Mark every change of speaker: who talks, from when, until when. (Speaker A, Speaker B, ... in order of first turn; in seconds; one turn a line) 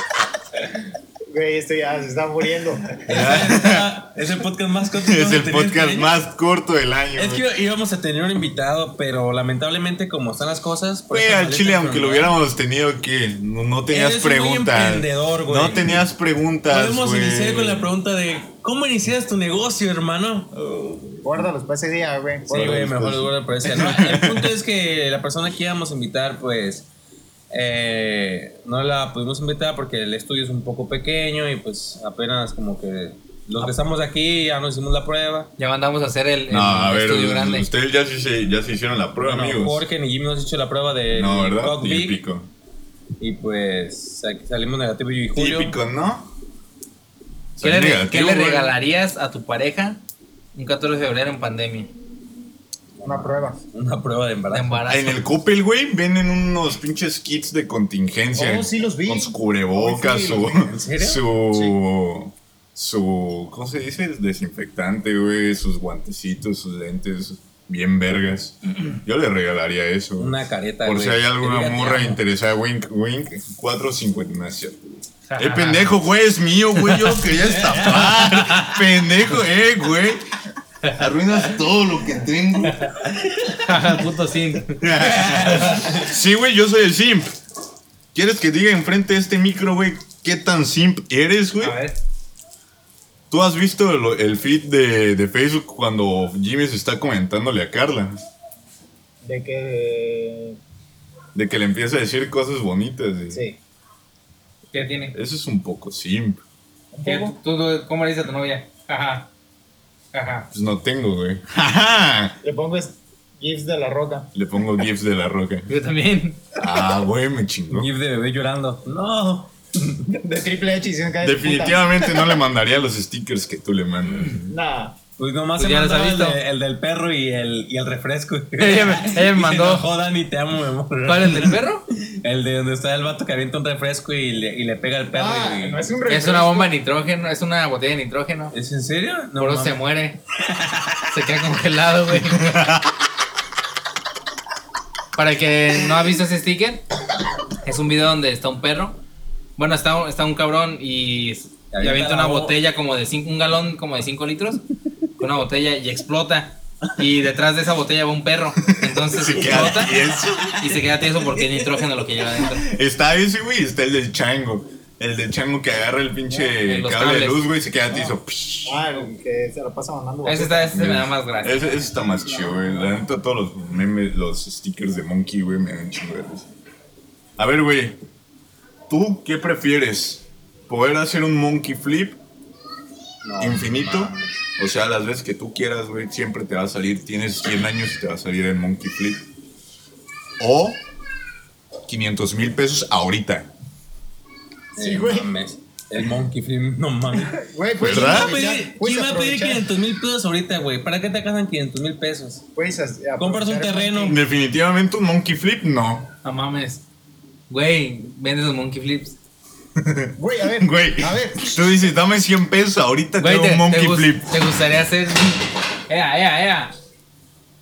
Speaker A: 1.3-3.0
Speaker B: 3.0-6.1
Speaker C: 3.1-4.0
Speaker C: 5.0-7.4
Speaker B: 7.2-12.3
Speaker C: 11.1-17.9
Speaker B: 13.9-16.0
Speaker B: 16.7-20.5
Speaker C: 20.5-21.5
Speaker A: 21.2-23.2
Speaker B: 22.5-26.9
Speaker C: 22.6-24.5
Speaker B: 27.5-35.5
Speaker D: 35.6-37.7
Speaker C: 36.5-39.8
Speaker B: 39.2-42.2
Speaker C: 41.1-42.5
Speaker B: 43.2-45.8
Speaker C: 45.3-46.3
Speaker C: 47.5-48.7
Speaker D: 47.6-50.0
Speaker D: 50.5-51.9
Speaker B: 53.0-54.9
Speaker A: 53.0-53.6
Speaker D: 54.5-55.2
Speaker C: 54.9-80.2
Speaker A: 58.3-60.7
Speaker B: 60.6-61.2
Speaker B: 70.2-72.2
Speaker D: 75.3-75.9
Speaker B: 77.3-78.2
Speaker D: 78.2-78.8
Speaker C: 80.9-82.9
Speaker B: 83.1-83.6
Speaker D: 83.6-84.8
Speaker C: 84.8-87.4
Speaker B: 85.0-86.1
Speaker D: 85.5-85.8
Speaker C: 88.1-91.8
Speaker D: 91.6-92.0
Speaker C: 93.3-98.2
Speaker A: 99.2-100.6
Speaker C: 101.3-103.4
Speaker A: 103.3-103.6
Speaker D: 104.7-105.2
Speaker C: 105.1-106.4
Speaker A: 106.9-107.4
Speaker D: 107.0-109.3
Speaker D: 110.1-110.5
Speaker C: 110.5-112.4
Speaker A: 112.4-114.3
Speaker C: 114.3-115.7
Speaker D: 115.7-116.4
Speaker C: 116.6-117.9
Speaker B: 117.7-120.1
Speaker A: 120.1-122.4
Speaker C: 121.2-124.5
Speaker A: 124.5-125.0
Speaker B: 125.2-135.9
Speaker D: 125.6-126.4
Speaker D: 128.6-129.8
Speaker D: 131.1-131.8
Speaker A: 135.1-136.7
Speaker D: 136.1-138.5
Speaker B: 138.5-139.8
Speaker D: 139.4-140.2
Speaker D: 141.1-142.6
Speaker C: 142.3-142.8
Speaker D: 145.2-146.8
Speaker D: 147.6-149.0
Speaker D: 149.6-154.6
Speaker B: 151.7-152.6
Speaker D: 155.2-159.9
Speaker C: 158.9-160.8
Speaker B: 159.5-160.0
Speaker D: 160.6-162.7
Speaker C: 162.5-168.8
Speaker D: 166.6-167.5
Speaker A: 168.6-170.8
Speaker D: 170.2-171.7
Speaker C: 170.7-176.5
Speaker C: 177.4-178.0
Speaker C: 178.9-182.2
Speaker B: 183.2-184.3
Speaker C: 183.4-189.2
Speaker C: 190.4-190.8
Speaker C: 191.9-193.5
Speaker B: 194.7-202.5
Speaker A: 194.8-195.3
Speaker A: 197.2-199.7
Speaker C: 197.8-198.4
Speaker A: 202.5-204.2
Speaker B: 203.2-204.2
Speaker C: 204.1-206.1
Speaker D: 206.2-206.8
Speaker D: 207.5-209.2
Speaker C: 209.8-214.4
Speaker A: 210.2-211.6
Speaker D: 213.2-216.7